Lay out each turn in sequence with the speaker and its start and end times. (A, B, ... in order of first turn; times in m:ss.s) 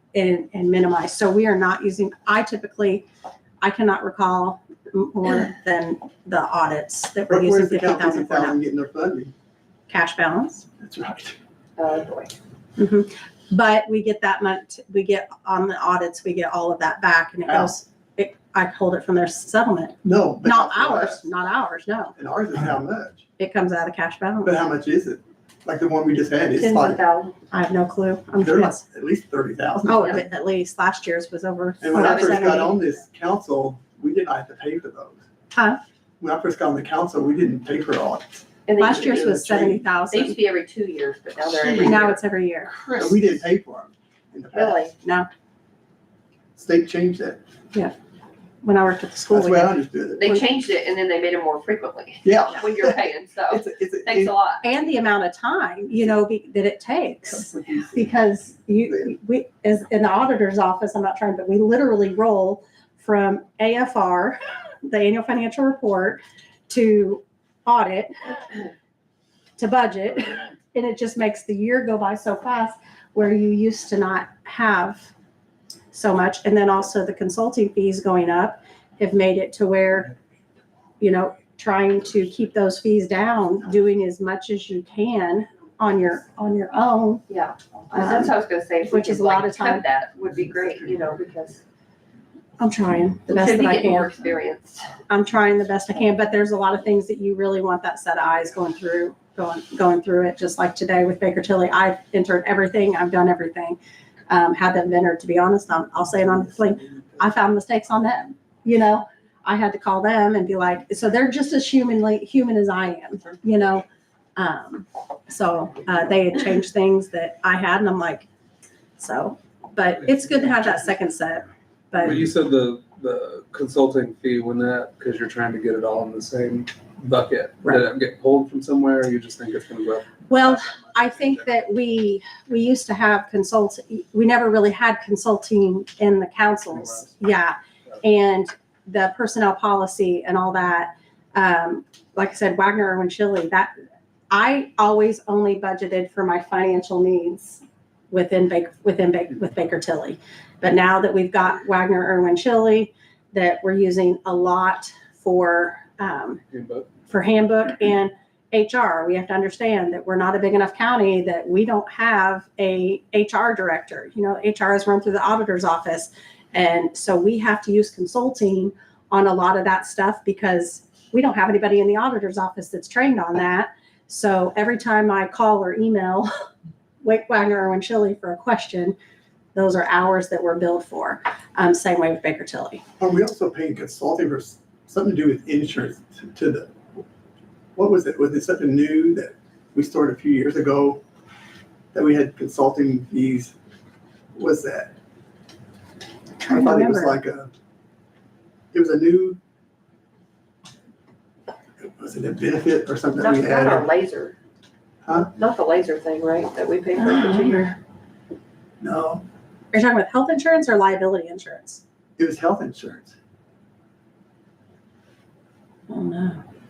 0:00.1-0:03.1 A
0:03.6-0:08.6 A
0:07.3-0:09.3 B
0:09.9-0:10.6 A
0:10.8-0:11.4 B
0:11.8-0:12.3 C
0:12.8-0:22.1 A
0:17.5-0:17.7 B
0:20.0-0:21.3 B
0:22.2-0:23.2 B
0:23.4-0:24.5 A
0:24.4-0:27.0 B
0:26.6-0:27.4 C
0:27.5-0:28.8 A
0:28.4-0:30.2 B
0:29.9-0:32.7 A
0:31.8-0:35.2 B
0:31.9-0:32.6 C
0:35.5-0:35.8 A
0:36.2-0:39.8 B
0:38.7-0:39.2 C
0:38.8-0:40.4 A
0:40.1-0:42.2 C
0:41.6-0:42.1 B
0:41.8-0:42.7 A
0:42.7-0:43.2 C
0:43.0-0:44.9 B
0:44.5-0:44.9 C
0:45.0-0:45.3 A
0:46.6-0:47.4 B
0:48.6-0:49.8 A
0:49.3-0:50.3 B
0:50.2-0:54.6 C
0:52.2-0:53.0 B
0:53.5-0:54.3 B
0:54.6-1:08.6 A
0:57.3-0:58.1 B
1:09.6-1:15.1 A
1:15.9-1:20.1 A
1:21.0-1:27.2 A
1:27.3-1:31.6 C
1:27.9-1:28.3 A
1:28.8-1:29.8 A
1:32.6-1:34.1 A
1:33.3-1:34.9 C
1:35.1-1:53.8 A
1:54.4-1:58.3 A
1:59.0-2:02.2 A
2:02.0-2:11.6 D
2:10.3-2:23.7 A
2:16.7-2:17.1 D
2:24.3-2:36.4 A
2:36.5-2:36.9 D
2:37.1-2:56.3 A
2:57.0-2:58.9 A
2:59.5-3:02.8 A
3:03.0-3:06.7 B
3:07.8-3:11.0 B
3:11.9-3:13.5 B
3:14.4-3:14.9 B
3:16.4-3:17.2 A
3:16.5-3:17.5 B
3:18.7-3:19.4 B
3:21.8-3:23.9 B
3:23.2-3:24.4 C
3:25.1-3:27.6 C
3:27.0-3:27.8 A
3:28.8-3:29.2 B
3:29.7-3:31.8 A
3:32.2-3:33.1 B
3:35.9-3:36.4 A